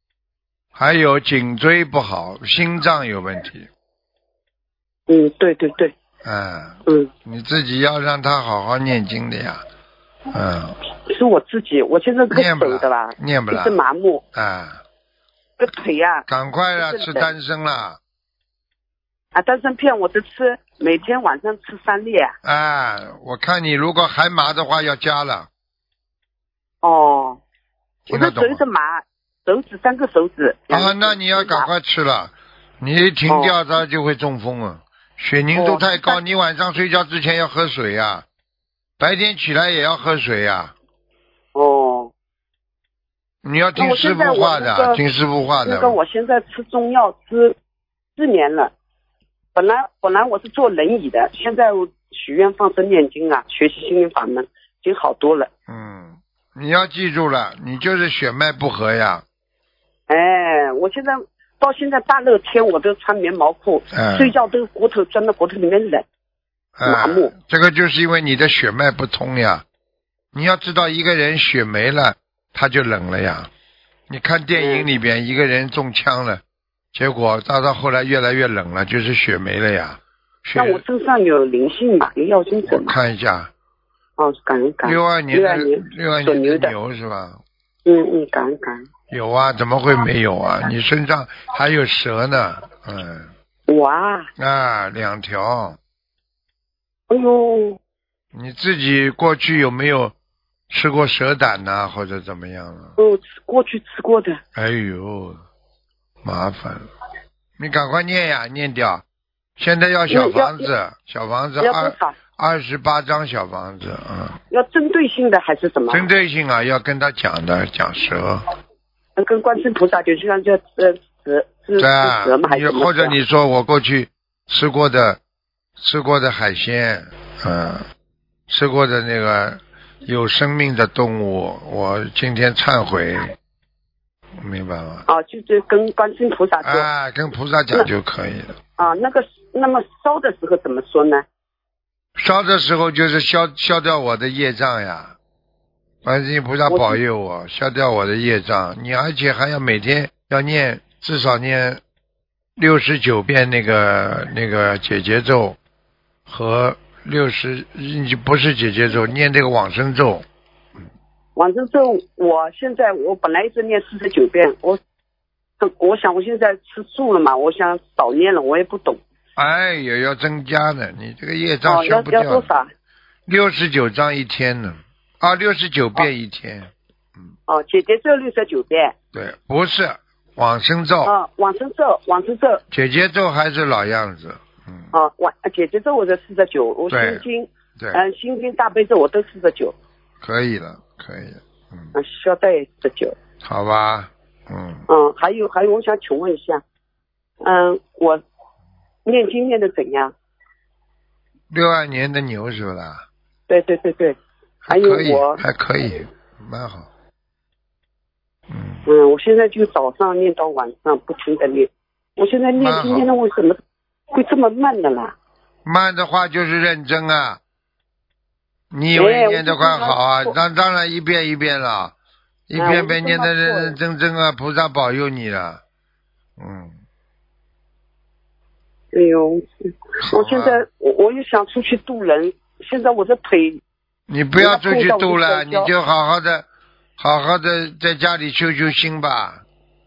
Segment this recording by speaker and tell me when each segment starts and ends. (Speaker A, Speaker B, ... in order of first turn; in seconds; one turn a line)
Speaker A: 0.8-3.7
Speaker B: 5.1-5.9
Speaker A: 6.2-9.6
Speaker A: 10.3-10.8
Speaker B: 11.1-14.2
Speaker A: 12.3-13.8
Speaker A: 14.3-14.8
Speaker B: 15.6-16.2
Speaker A: 16.3-18.0
Speaker B: 16.8-17.3
Speaker B: 19.3-22.4
Speaker A: 22.4-25.5
Speaker B: 26.8-27.4
Speaker A: 28.1-28.6
Speaker B: 28.1-31.7
Speaker A: 30.7-38.2
Speaker B: 33.3-33.5
Speaker B: 35.5-36.2
Speaker A: 39.0-40.7
Speaker B: 41.5-42.1
Speaker A: 43.4-46.0
Speaker B: 43.8-45.0
Speaker B: 45.6-47.6
Speaker B: 48.2-48.7
Speaker B: 49.5-55.5
Speaker A: 55.7-59.2
Speaker B: 60.1-66.0
Speaker A: 63.9-64.3
Speaker A: 66.8-69.6
Speaker B: 66.8-67.3
Speaker A: 70.3-73.5
Speaker A: 74.1-76.4
Speaker B: 74.6-74.9
Speaker A: 76.9-80.8
Speaker B: 80.6-83.0
Speaker A: 82.7-83.5
Speaker B: 84.2-86.7
Speaker A: 84.8-87.4
Speaker B: 87.9-88.9
Speaker A: 89.1-93.3
Speaker B: 93.7-94.3
Speaker A: 94.4-95.8
Speaker B: 97.1-97.8
Speaker A: 98.3-100.1
Speaker A: 100.7-103.0
Speaker B: 103.0-104.4
Speaker A: 104.5-105.4
Speaker A: 106.2-106.9
Speaker A: 107.6-109.0
Speaker A: 109.6-114.4
Speaker B: 110.1-110.7
Speaker B: 111.6-112.2
Speaker B: 114.5-116.1
Speaker A: 115.9-118.5
Speaker B: 119.2-123.2
Speaker A: 121.8-125.2
Speaker A: 125.8-127.9
Speaker A: 128.5-133.3
Speaker A: 134.4-135.1
Speaker B: 135.1-136.9
Speaker A: 136.6-138.6
Speaker B: 138.8-141.2
Speaker A: 142.2-145.2
Speaker A: 146.0-151.8
Speaker B: 146.7-147.0
Speaker A: 152.6-155.6
Speaker A: 156.3-160.2
Speaker B: 161.4-164.8
Speaker B: 165.6-169.0
Speaker A: 169.4-172.5
Speaker B: 171.7-172.7
Speaker A: 173.3-176.7
Speaker B: 177.5-178.9
Speaker A: 179.1-181.1
Speaker B: 181.1-182.6
Speaker A: 182.7-184.9
Speaker B: 184.9-189.8
Speaker A: 186.9-187.2
Speaker A: 187.8-188.0
Speaker A: 190.2-191.9
Speaker B: 191.9-193.2
Speaker A: 193.4-194.9
Speaker B: 194.9-196.6
Speaker B: 197.4-198.2
Speaker B: 199.1-200.1
Speaker A: 201.5-203.1
Speaker B: 203.5-204.2
Speaker A: 204.7-206.9
Speaker B: 204.7-205.4
Speaker A: 208.5-208.8
Speaker B: 208.9-213.6
Speaker A: 212.6-213.1
Speaker B: 214.1-215.1
Speaker A: 215.7-217.4
Speaker A: 218.7-221.9
Speaker B: 219.0-220.3
Speaker A: 222.5-225.6
Speaker B: 222.6-223.8
Speaker A: 226.4-226.8
Speaker B: 228.9-233.6
Speaker A: 230.0-230.6
Speaker A: 234.1-236.5
Speaker B: 234.4-235.7
Speaker A: 237.0-239.4